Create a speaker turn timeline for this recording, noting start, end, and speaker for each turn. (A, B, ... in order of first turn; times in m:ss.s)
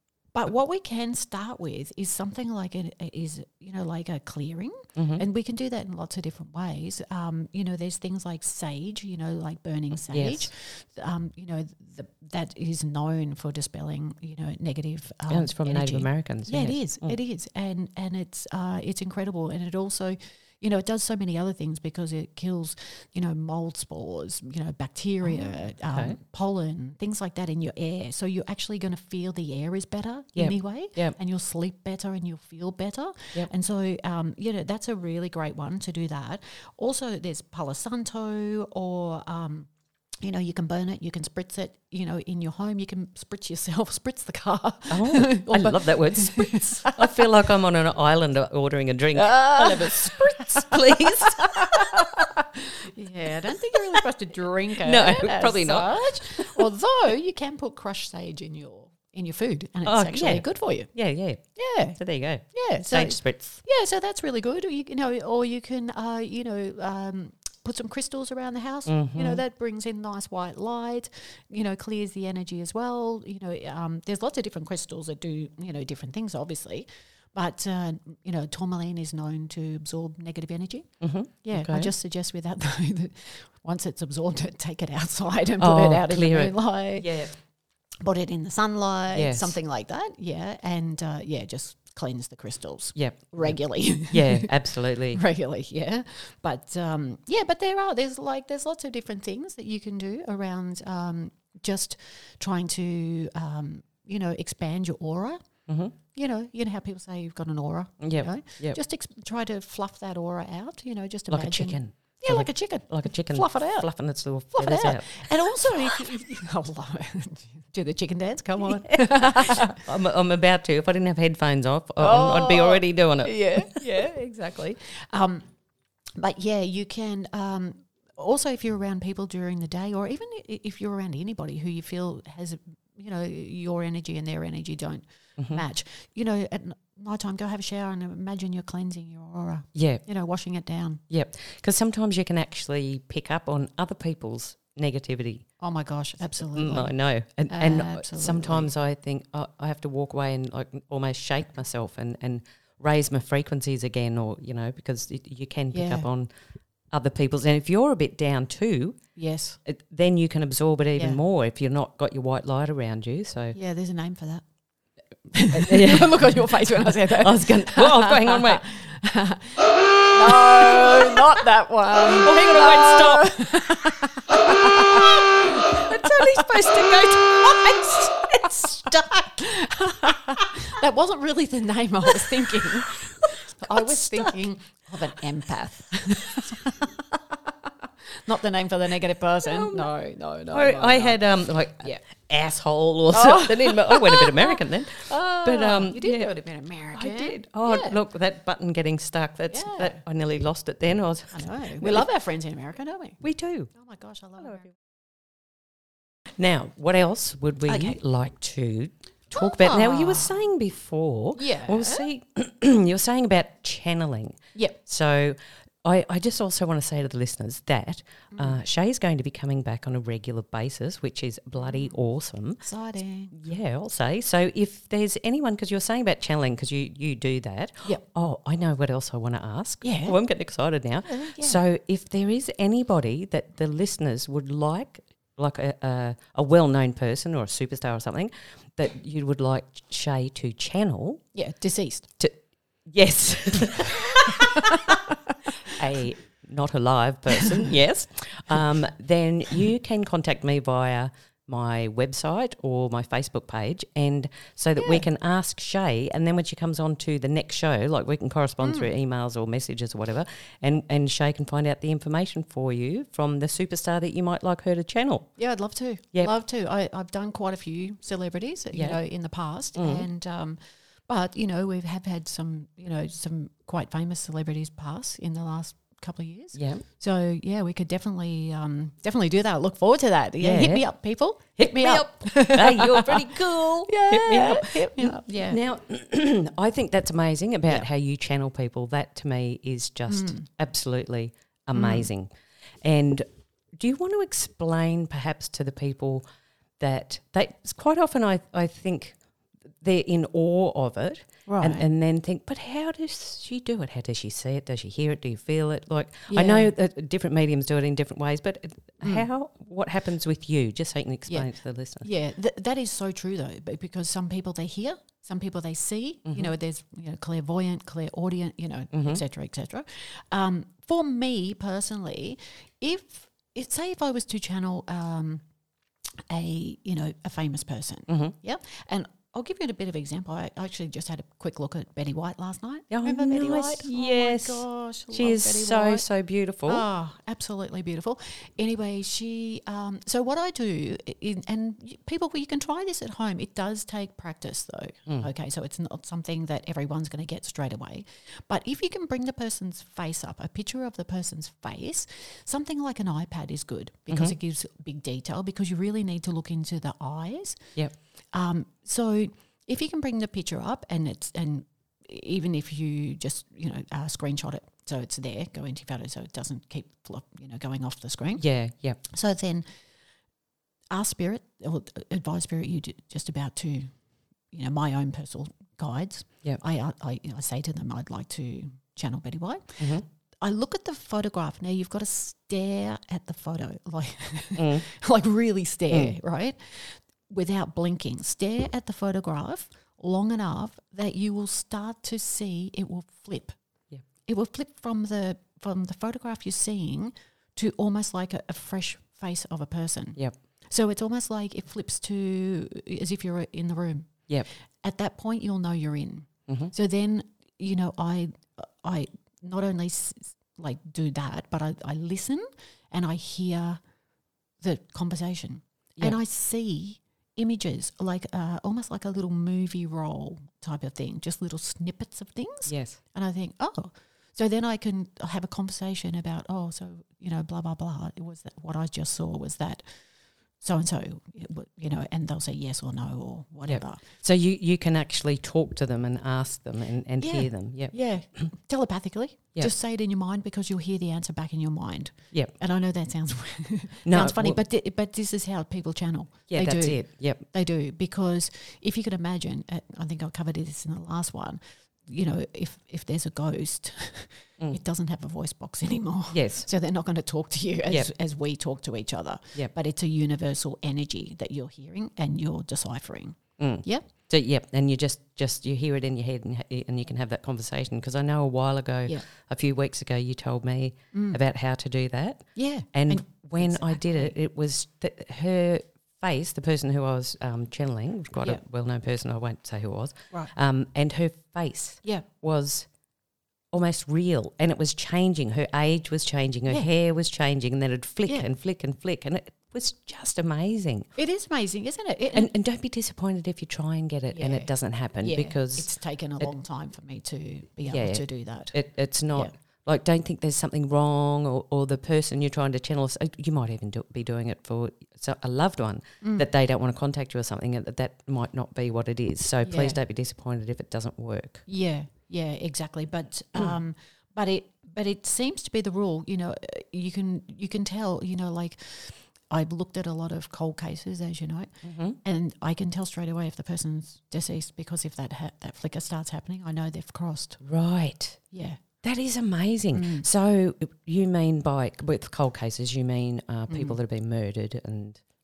0:00.3-0:39.7 A
0:05.0-0:05.2 B
0:10.1-0:10.5 B
0:15.3-0:17.2 B
0:25.2-0:26.2 B
0:30.4-0:31.2 B
0:40.2-0:47.3 A
0:44.9-0:52.1 B
0:49.2-1:00.9 A
0:54.8-0:56.7 B
0:59.8-1:01.4 B
1:01.6-1:02.0 A
1:02.0-1:03.6 B
1:02.5-1:20.9 A
1:08.9-1:09.4 B
1:21.0-1:21.9 B
1:21.4-1:27.2 A
1:25.6-1:27.3 B
1:28.0-1:34.5 A
1:29.1-1:29.6 B
1:33.0-1:35.2 B
1:35.1-1:45.4 A
1:45.7-1:45.9 B
1:46.1-1:53.9 A
1:48.0-1:48.8 B
1:51.3-1:55.9 B
1:54.5-1:59.8 A
1:58.6-2:03.8 B
2:02.0-2:05.5 A
2:06.2-2:21.0 A
2:15.4-2:15.6 B
2:19.8-2:20.0 B
2:21.1-2:25.5 B
2:25.6-2:26.9 A
2:26.4-2:36.3 B
2:27.5-2:28.7 A
2:35.7-2:36.1 A
2:36.9-2:39.0 B
2:39.2-2:39.6 A
2:39.6-2:43.6 B
2:41.0-2:41.2 A
2:43.5-2:44.4 A
2:45.3-3:11.2 A
2:45.4-2:48.7 B
2:50.3-2:51.2 B
2:52.1-2:59.1 B
3:02.1-3:04.4 B
3:09.4-3:09.9 B
3:10.5-3:16.3 B
3:13.1-3:18.0 A
3:16.9-3:22.1 B
3:19.5-3:20.0 A
3:21.3-3:23.2 A
3:23.2-3:23.7 B
3:23.8-3:24.7 A
3:26.4-3:42.6 B
3:27.7-3:28.0 A
3:29.3-3:30.4 A
3:31.4-3:32.1 A
3:38.3-3:38.6 A
3:41.6-3:41.9 A
3:42.6-3:43.4 A
3:43.3-4:01.2 B
3:49.8-3:50.2 A
3:51.0-3:51.6 A
4:01.4-4:02.1 A
4:02.9-4:05.0 B
4:03.8-4:05.4 A
4:05.6-4:25.3 B
4:14.8-4:15.0 A
4:18.6-4:18.9 A
4:25.4-4:43.4 A
4:28.7-4:29.0 B
4:29.8-4:30.1 B
4:36.6-4:36.8 B
4:40.4-4:40.8 B
4:41.6-4:52.3 B
4:43.9-4:45.6 A
4:50.1-4:50.4 A
4:51.8-4:52.1 A
4:52.8-4:53.3 B
4:53.8-4:56.2 B
4:56.8-4:59.2 B
4:59.8-5:12.1 B
5:01.5-5:01.8 A
5:06.3-5:06.7 A
5:09.0-5:09.3 A
5:12.0-5:25.4 A
5:16.3-5:16.5 B
5:18.9-5:19.2 B
5:26.3-5:36.0 A
5:28.1-5:28.3 B
5:32.9-5:36.8 B
5:36.7-5:57.6 A
5:58.3-6:08.4 A
6:08.4-6:09.0 B
6:09.0-6:09.6 A
6:10.9-6:13.9 A
6:14.5-6:19.8 A
6:19.8-6:20.0 B
6:20.4-6:33.6 A
6:24.6-6:24.9 B
6:34.3-6:40.2 A
6:40.7-6:44.2 A
6:44.8-6:53.8 A
6:54.6-7:09.8 A
7:02.7-7:03.0 B
7:10.6-7:14.0 A
7:13.6-7:18.5 B
7:17.2-7:44.0 A
7:24.0-7:24.6 B
7:26.5-7:27.4 B
7:36.3-7:36.7 B
7:43.6-8:02.9 B
7:51.1-7:51.4 A
7:52.6-7:54.3 A
8:03.7-8:11.1 B
8:11.2-8:12.5 A
8:12.3-8:15.9 B
8:14.3-8:14.7 A
8:15.2-8:18.8 A
8:17.9-8:31.6 B
8:26.2-8:26.5 A
8:29.6-8:30.0 A
8:31.7-8:41.7 A
8:41.8-8:42.2 B
8:42.2-8:47.6 A
8:47.6-8:48.4 B
8:48.5-8:48.8 A
8:49.0-8:55.2 B
8:49.9-8:50.3 A
8:53.7-8:54.0 A